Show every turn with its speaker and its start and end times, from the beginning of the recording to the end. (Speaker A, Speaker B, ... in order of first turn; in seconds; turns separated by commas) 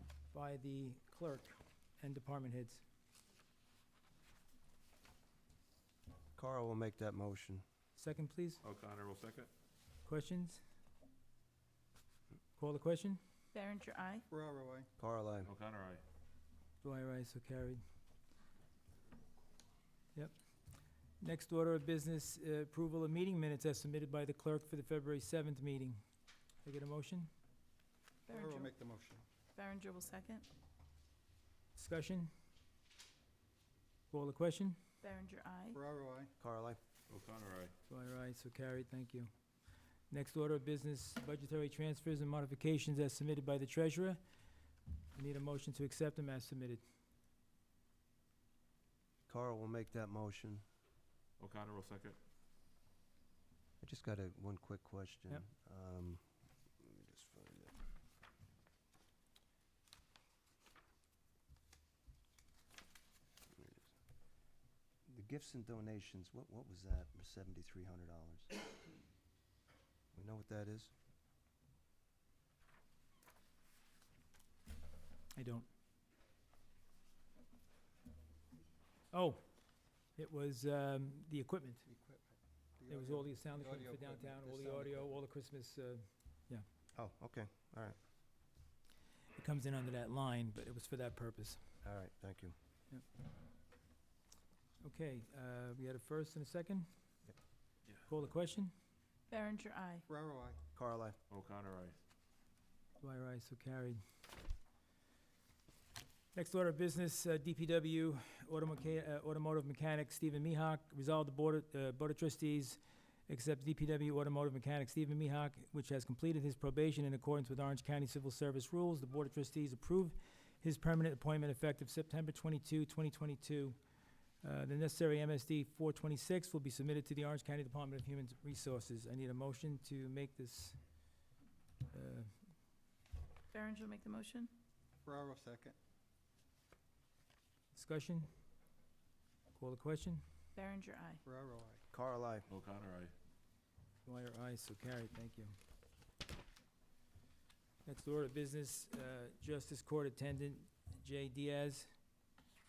Speaker A: 0.3-2.8, Speaker B: 6.3-7.6, Speaker A: 8.0-8.6, Speaker C: 8.6-9.5, Speaker A: 10.0-10.6, Speaker A: 12.6-13.2, Speaker D: 13.5-14.2, Speaker E: 14.3-14.9, Speaker B: 15.0-15.5, Speaker C: 15.4-16.0, Speaker A: 16.8-17.8, Speaker A: 21.2-26.0, Speaker A: 26.6-27.3, Speaker D: 28.3-28.7, Speaker E: 28.3-29.2, Speaker D: 29.6-30.5, Speaker A: 31.8-32.3, Speaker A: 34.1-34.8, Speaker D: 35.0-35.8, Speaker E: 35.7-36.3, Speaker B: 36.4-36.8, Speaker C: 37.1-37.7, Speaker A: 37.9-39.3, Speaker A: 40.1-44.2, Speaker A: 45.1-46.8, Speaker B: 49.3-50.6, Speaker C: 51.4-52.2, Speaker B: 53.8-56.2, Speaker B: 56.8-57.8, Speaker B: 63.5-63.9, Speaker B: 65.1-68.5, Speaker B: 70.1-70.9, Speaker A: 75.3-75.7, Speaker A: 79.1-79.4, Speaker A: 80.2-81.9, Speaker E: 81.9-85.2, Speaker A: 82.9-86.7, Speaker B: 87.0-88.0, Speaker A: 89.3-91.6, Speaker B: 91.8-92.6, Speaker A: 94.8-96.9, Speaker A: 98.1-98.7, Speaker D: 99.3-100.1, Speaker E: 100.1-100.6, Speaker B: 100.8-101.2, Speaker C: 101.3-102.0, Speaker A: 103.0-104.0, Speaker A: 106.3-123.8, Speaker A: 124.4-130.8, Speaker A: 131.9-132.3, Speaker D: 133.5-134.5, Speaker E: 135.1-135.8, Speaker A: 137.7-138.3, Speaker A: 139.6-140.2, Speaker D: 140.6-141.2, Speaker E: 141.2-141.8, Speaker B: 141.9-142.5, Speaker C: 142.5-143.1, Speaker A: 144.1-145.6, Speaker A: 147.8-151.9